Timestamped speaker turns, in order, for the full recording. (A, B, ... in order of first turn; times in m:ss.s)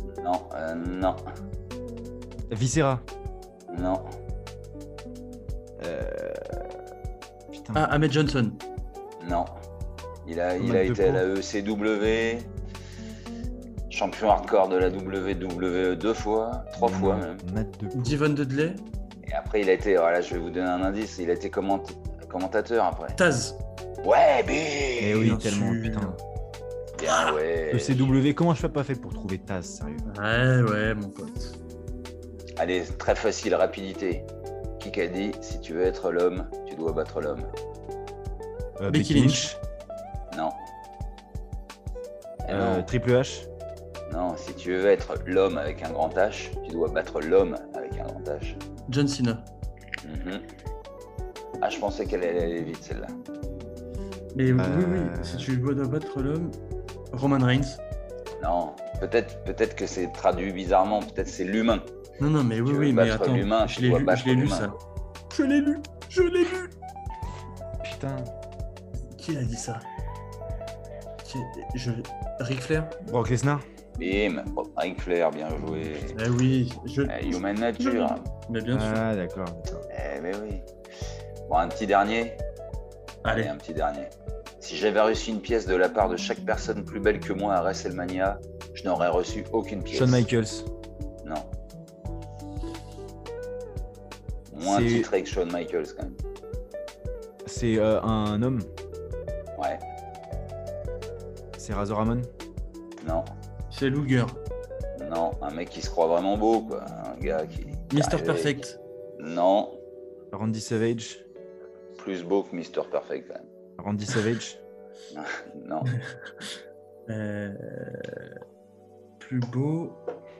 0:00.2-0:01.2 A
0:02.5-0:03.0 B
0:03.7-0:04.0 A
0:05.8-0:06.8 B
0:07.5-0:07.9 B
0:07.7-0:08.6 C
0:09.2-0:09.5 A
0:10.2-0:12.5 A
0:10.6-0:11.2 B
0:13.9-0:17.4 A
0:16.8-0:18.2 B
0:17.9-0:18.8 C
0:19.2-0:23.2 A
0:23.2-0:23.6 C
0:24.0-0:25.3 A
0:25.0-0:26.2 B
0:25.2-0:26.2 C
0:27.0-0:28.2 A
0:27.1-0:27.3 C
0:27.7-0:30.0 B
0:30.0-0:31.6 C
0:32.6-0:34.3 A
0:34.8-0:37.5 A
0:38.8-0:39.6 B
0:38.9-0:39.5 C
0:40.3-0:40.6 A
0:42.4-0:42.9 A
0:42.5-0:43.5 B
0:44.1-0:48.6 A
0:48.9-0:49.5 C
0:50.0-0:50.4 A
0:51.6-0:53.2 A
0:54.3-0:56.6 C
0:54.6-0:55.5 B
0:57.1-0:57.8 C
0:58.4-1:01.9 A
1:02.2-1:04.8 C
1:02.7-1:04.7 A
1:05.3-1:06.7 C
1:07.8-1:08.3 B
1:09.1-1:09.8 C
1:11.2-1:13.0 C
1:13.0-1:13.6 B
1:14.0-1:16.2 A
1:16.1-1:19.1 C
1:17.1-1:18.3 A
1:18.7-1:19.8 B
1:19.9-1:20.7 A
1:21.5-1:22.4 A
1:23.2-1:23.5 C
1:23.3-1:30.2 A
1:29.9-1:30.7 B
1:34.5-1:36.2 A
1:34.6-1:35.1 B
1:37.4-1:38.7 B
1:39.6-1:39.8 A
1:41.6-1:42.3 B
1:43.0-1:43.2 A
1:43.7-1:44.4 C
1:45.0-1:48.6 A
1:47.9-1:48.8 C
1:49.2-1:49.8 A
1:50.3-1:51.2 B
1:52.0-1:53.4 A
1:53.8-1:54.6 B
1:55.1-1:55.9 A
1:57.1-1:58.4 C
1:59.2-2:00.0 C